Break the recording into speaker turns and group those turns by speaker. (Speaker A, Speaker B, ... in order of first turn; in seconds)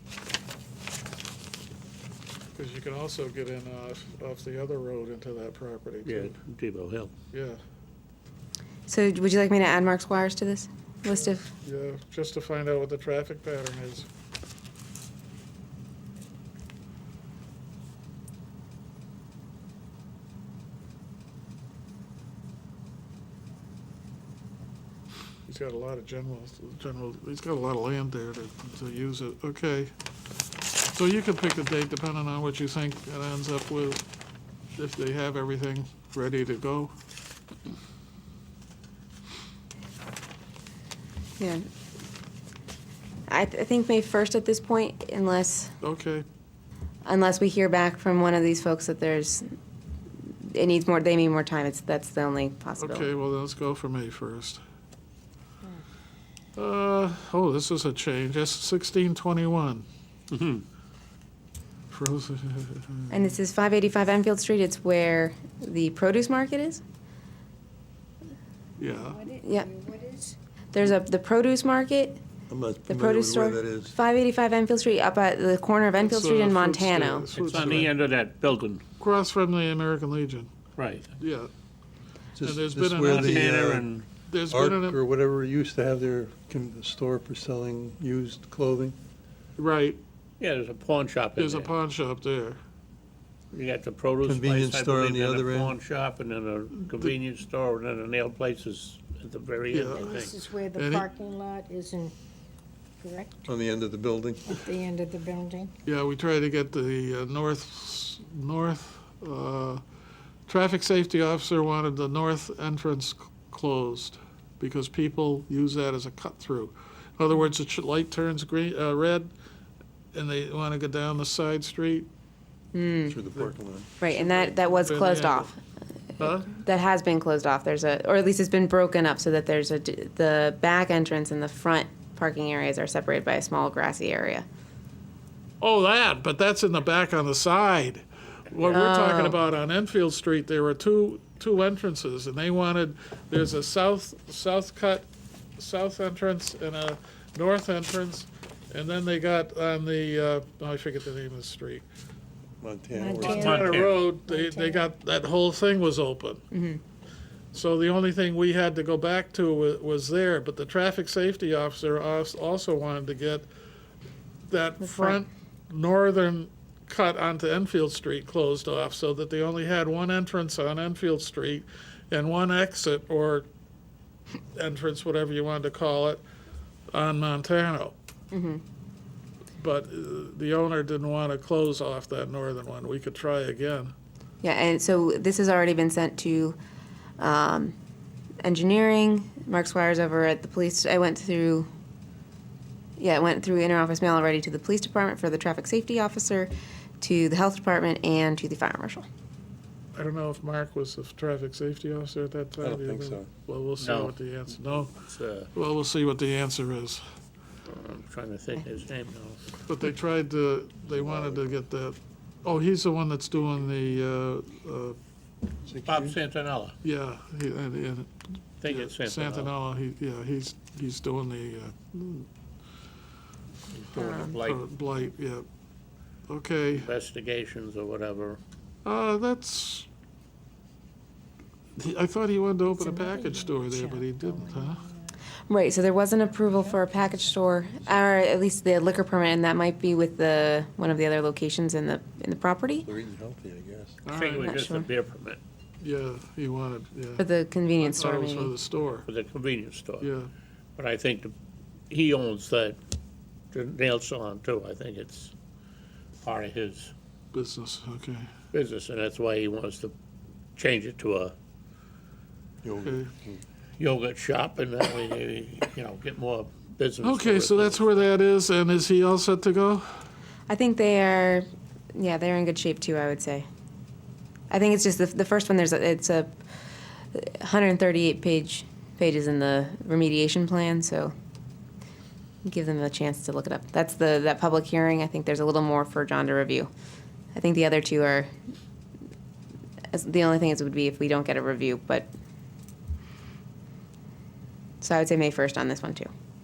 Speaker A: 2.5-6.3, 7.3-7.6, 11.1-14.1, 25.5-29.9, 30.9-34.0, 34.8-36.9, 45.8-46.2, 52.8-54.6, 56.6-59.9, 61.9-63.4, 68.8-69.3, 76.0-77.9, 79.0-80.5, 81.2-81.5, 82.4-83.5, 84.2-85.0, 89.6-90.0, 91.4-92.6, 99.7-101.1, 105.8-109.8, 110.5-119.3, 120.1-122.1, 123.3-125.5, 126.2-126.5, 135.6-151.8, 153.2-156.4, 157.5-163.5, 164.5-173.5, 174.6-176.2, 176.9-178.0, 179.6-183.9, 199.9-205.0, 205.5-207.0, 209.7-215.0, 216.8-218.1, 218.7-222.3, 224.2-225.5, 226.3-226.9, 228.8-229.9, 231.8-234.8, 244.1-244.5, 245.8-247.2, 247.8-249.1, 250.0-250.3, 257.3-258.3, 262.8-263.1, 267.0-270.0
Speaker B: 6.0-7.1, 60.3-60.6, 77.3-78.8, 80.8-81.1, 83.0-84.1, 90.4-91.7, 93.5-100.4, 153.2-154.0, 203.8-204.2, 204.8-205.5, 207.7-209.5, 215.9-216.7, 218.6-219.5, 223.7-224.6, 226.7-228.4, 244.1-245.4, 249.1-250.1, 250.8-251.3, 251.9-252.8, 253.5-255.3, 256.2-256.9, 258.5-259.9, 260.6-261.3, 263.8-268.0
Speaker C: 8.9-11.5, 41.4-41.6, 43.3-45.8, 47.0-49.5, 50.3-53.1, 63.1-66.8, 69.4-69.7, 70.7-72.2, 72.9-77.3, 122.7-123.2, 124.0-125.5, 126.2-134.5, 138.7-139.4, 156.5-156.8, 164.8-165.2, 178.3-178.6, 184.4-186.6, 187.2-187.8, 188.4-191.7, 193.0-199.1, 235.5-242.9, 244.4-244.9, 247.2-248.6, 270.5-273.5, 274.5-276.4, 277.1-281.1, 282.4-286.7, 287.3-288.3, 289.9-292.1, 294.8-296.1
Speaker D: 68.9-70.4, 100.0-102.2, 103.0-103.5, 104.5-105.7, 152.9-154.9, 232.8-235.1, 236.6-237.3
Speaker E: 72.5-74.0, 82.4-83.9, 84.5-89.0, 94.2-95.8, 103.5-104.6, 123.1-123.9, 152.6-153.7, 202.6-203.3, 210.9-211.4, 215.6-216.2, 242.8-244.0, 262.6-263.4